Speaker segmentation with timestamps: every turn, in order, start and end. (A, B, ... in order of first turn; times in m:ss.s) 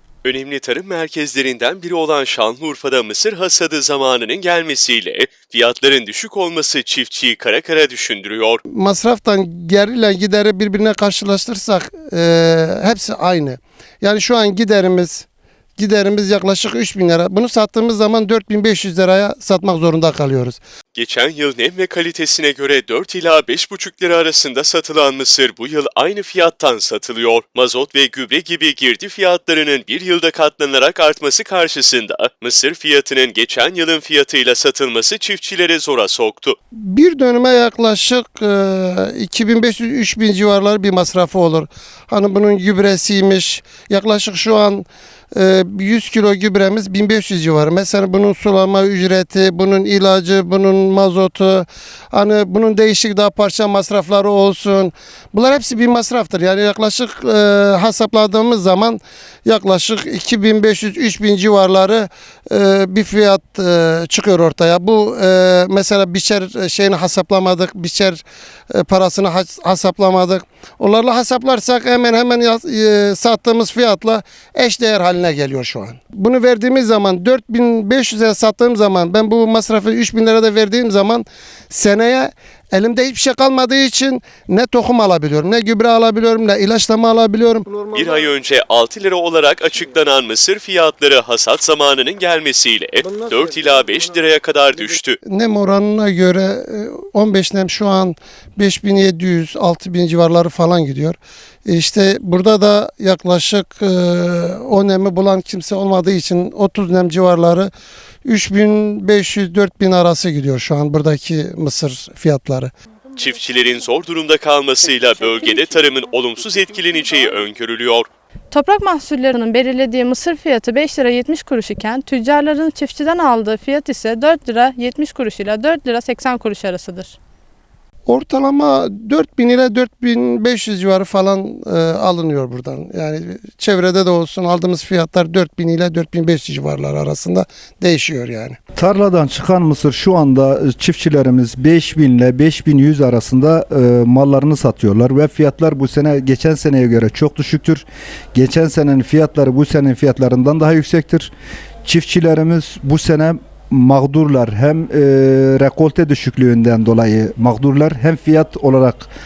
0:00.2-0:08.6 A
0:08.7-0:20.6 B
0:20.9-0:36.6 A
0:36.8-1:28.3 B
1:27.9-1:35.2 A
1:33.0-1:34.2 B
1:35.2-1:47.7 B
1:48.2-1:52.7 B
1:53.2-1:58.1 A
1:58.5-2:07.2 C
2:08.1-2:18.6 B
2:18.8-2:31.3 D
2:31.8-2:39.1 D